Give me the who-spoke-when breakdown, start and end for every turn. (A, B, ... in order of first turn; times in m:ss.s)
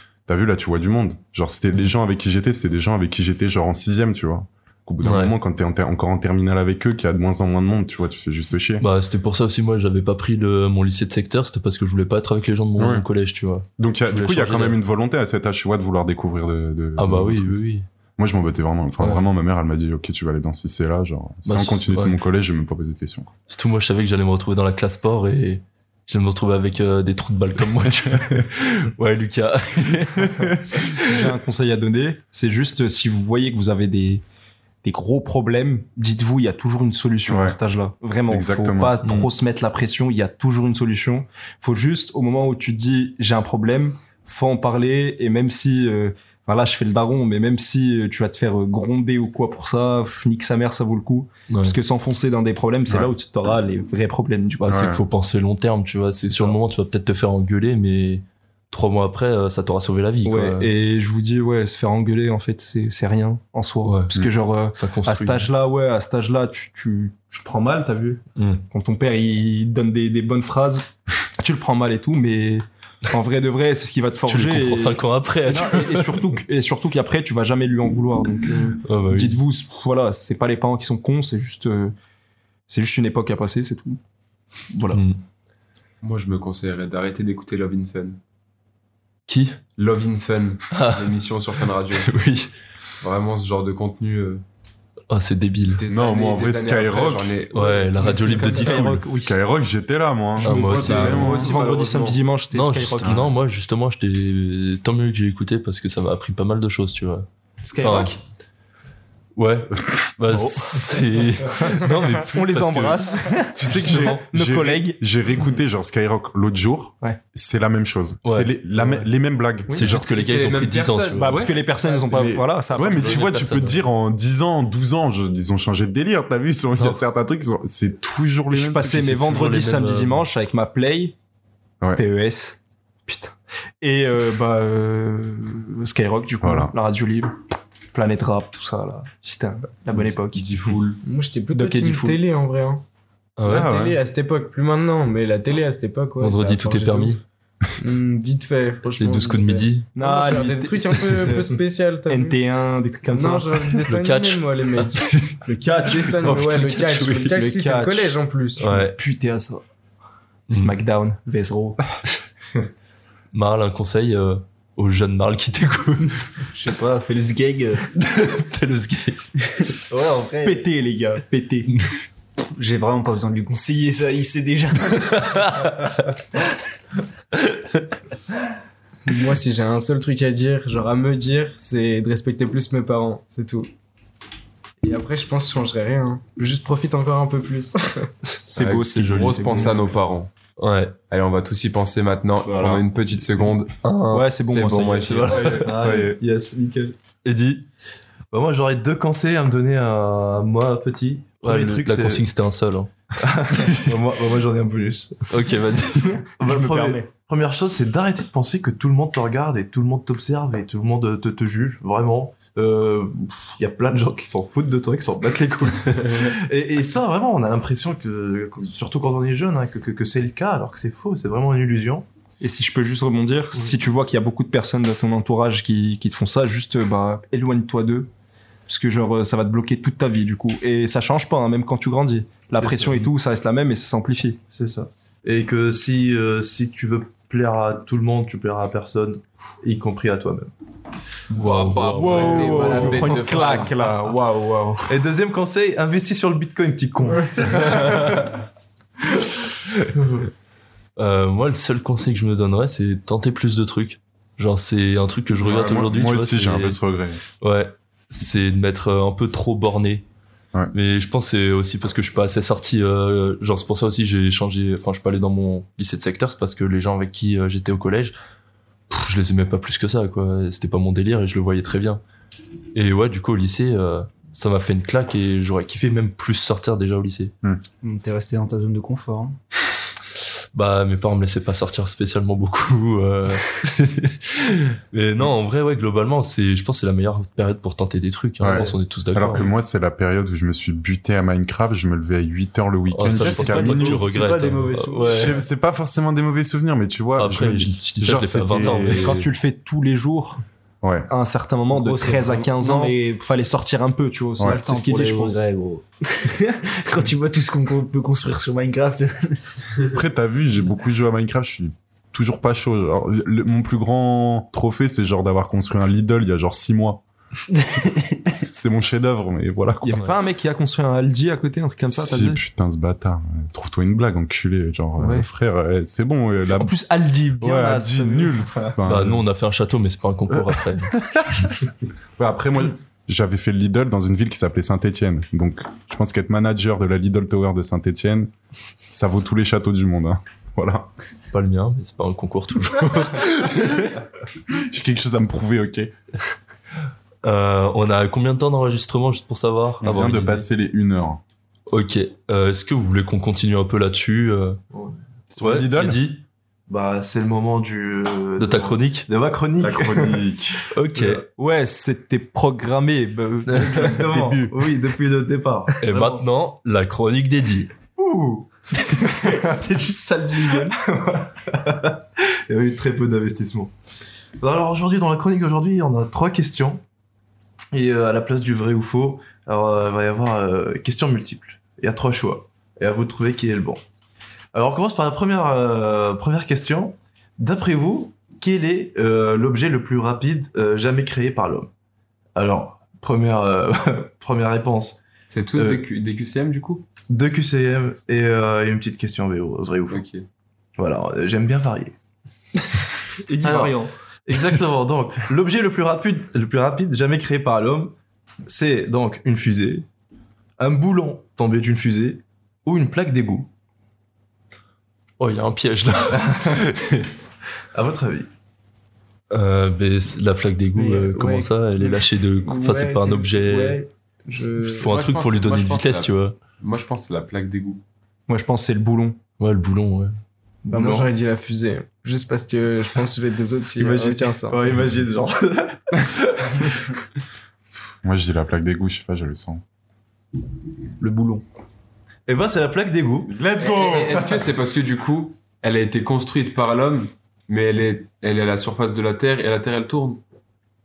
0:00.3-0:08.8 A
0:05.0-0:05.3 B
0:08.8-0:14.8 B
0:12.8-0:13.1 A
0:13.8-0:17.6 A
0:17.0-0:17.8 B
0:18.2-0:23.3 A
0:19.0-0:19.2 B
0:21.4-0:22.2 B
0:23.5-0:31.2 B
0:30.4-0:34.2 C
0:34.8-0:54.9 C
0:37.3-0:37.6 A
0:38.3-0:39.0 A
0:39.0-0:39.3 B
0:51.5-0:51.8 B
0:54.7-0:55.0 A
0:54.7-1:00.7 B
0:56.2-0:56.6 C
1:00.2-1:21.9 C
1:03.8-1:04.1 B
1:04.7-1:05.5 B
1:08.4-1:08.6 B
1:14.2-1:16.3 B
1:18.8-1:19.4 B
1:22.7-1:24.0 C
1:24.7-1:25.0 C
1:24.9-1:25.2 B
1:26.0-1:28.2 D
1:29.3-1:29.6 B
1:29.8-1:32.1 D
1:30.7-1:31.1 B
1:32.0-1:32.5 B
1:33.0-1:34.4 D
1:35.1-1:35.8 B
1:35.8-1:38.5 D
1:35.9-1:37.4 A
1:37.5-1:39.0 B
1:38.0-1:39.3 C
1:38.8-1:41.6 A
1:40.4-1:41.5 B
1:40.4-1:43.2 C
1:40.7-1:42.1 D
1:42.5-1:47.2 B
1:47.6-1:48.2 C
1:47.8-1:48.2 B
1:49.4-1:54.2 B
1:50.3-1:51.0 C
1:51.5-1:55.0 C
1:53.6-2:00.2 A
1:58.2-1:59.0 B
1:59.7-2:00.1 C
1:59.7-2:01.5 B
1:59.9-2:01.6 D
2:01.2-2:03.2 C
2:02.1-2:09.2 A
2:02.8-2:03.8 B
2:08.5-2:11.1 C
2:08.8-2:10.2 B
2:11.9-2:17.3 C
2:16.4-2:16.7 A
2:17.9-2:20.4 C
2:20.4-2:21.0 D
2:21.0-2:22.8 E
2:21.5-2:22.2 C
2:23.4-2:23.7 B
2:23.4-2:24.0 A
2:23.5-2:27.2 E
2:26.2-2:27.2 B
2:27.8-2:32.4 E
2:29.0-2:29.9 B
2:30.0-2:33.5 C
2:33.1-2:35.2 E
2:33.8-2:35.3 B
2:35.4-2:36.6 C
2:35.8-2:38.8 E
2:36.2-2:37.3 B
2:37.2-2:39.6 C
2:38.6-2:39.0 B
2:40.5-2:41.8 C
2:43.3-2:46.2 B
2:46.5-2:47.9 F
2:48.0-2:49.2 B
2:49.8-2:50.6 F
2:50.4-2:51.7 C
2:52.5-2:55.7 F
2:55.1-2:55.8 B
2:57.4-2:57.9 B
2:59.1-3:03.7 E
3:04.8-3:08.1 E
3:08.2-3:09.8 C
3:08.6-3:10.3 D
3:08.6-3:09.7 B
3:10.6-3:11.0 B
3:11.1-3:13.8 D
3:12.4-3:12.8 A
3:13.8-3:14.3 B
3:14.1-3:15.5 C
3:14.4-3:15.5 D
3:15.0-3:15.8 B
3:15.4-3:16.2 A
3:15.5-3:17.0 G
3:17.2-3:17.6 B
3:18.3-3:22.2 G
3:21.4-3:23.9 B
3:23.2-3:25.3 G
3:25.3-3:26.3 B
3:26.0-3:27.1 C
3:26.4-3:42.0 G
3:42.4-3:48.1 C
3:48.7-3:54.4 C
3:52.5-3:53.1 G
3:54.5-4:00.5 G
4:01.3-4:03.8 D
4:01.3-4:03.1 B
4:01.9-4:04.9 C
4:02.6-4:03.0 G
4:04.9-4:08.2 G
4:11.0-4:16.8 B
4:15.4-4:17.2 A
4:17.4-4:20.0 B
4:20.7-4:28.1 B
4:28.9-4:32.0 B
4:32.7-4:37.3 B
4:37.8-4:39.4 F
4:40.5-4:49.5 B
4:48.4-4:54.1 A
4:52.9-4:55.4 B
4:53.1-4:55.4 F
4:55.1-4:59.2 A
4:57.2-4:59.3 B
4:58.9-5:00.4 C
5:00.8-5:01.1 A
5:01.1-5:05.4 C
5:01.7-5:03.2 F
5:04.4-5:09.4 F
5:09.9-5:17.0 A
5:17.6-5:18.3 F
5:18.5-5:19.9 A
5:19.8-5:22.4 C
5:21.9-5:26.7 A
5:25.0-5:25.3 C
5:26.5-5:28.7 C
5:27.4-5:29.2 A
5:28.8-5:30.9 B
5:32.2-5:38.3 A
5:38.9-5:40.9 A
5:41.3-5:44.0 B
5:44.5-5:45.9 A
5:47.2-5:50.4 B
5:49.8-5:51.2 A
5:51.7-5:54.6 B
5:54.7-5:55.8 G
5:55.4-5:56.2 B
5:55.4-5:56.0 A
5:56.7-6:00.3 G
5:58.4-5:59.1 B
5:59.6-6:00.6 A
6:00.7-6:01.2 B
6:01.3-6:04.6 C
6:03.7-6:06.2 G
6:05.8-6:07.7 B
6:08.0-6:13.7 G
6:08.9-6:10.7 C
6:14.4-6:16.8 G
6:17.7-6:23.8 G
6:24.5-6:31.7 G
6:32.4-6:35.0 G
6:35.3-6:36.8 D
6:35.6-6:35.8 G
6:37.1-6:40.0 G
6:39.9-6:40.2 D
6:40.8-6:41.9 G
6:43.2-6:43.9 C
6:43.4-6:47.9 G
6:48.4-6:49.9 G
6:50.6-6:53.5 G
6:55.2-6:57.1 B
6:57.7-6:58.3 G
6:59.3-7:03.8 B
7:00.7-7:05.0 E
7:04.6-7:06.4 B
7:04.8-7:07.8 D
7:08.3-7:09.2 C
7:09.4-7:10.1 B
7:10.7-7:11.1 G
7:10.7-7:14.8 E
7:13.8-7:16.6 G
7:18.0-7:19.6 A
7:22.3-7:23.4 G
7:23.3-7:24.3 A
7:23.6-7:30.2 D
7:24.1-7:24.4 G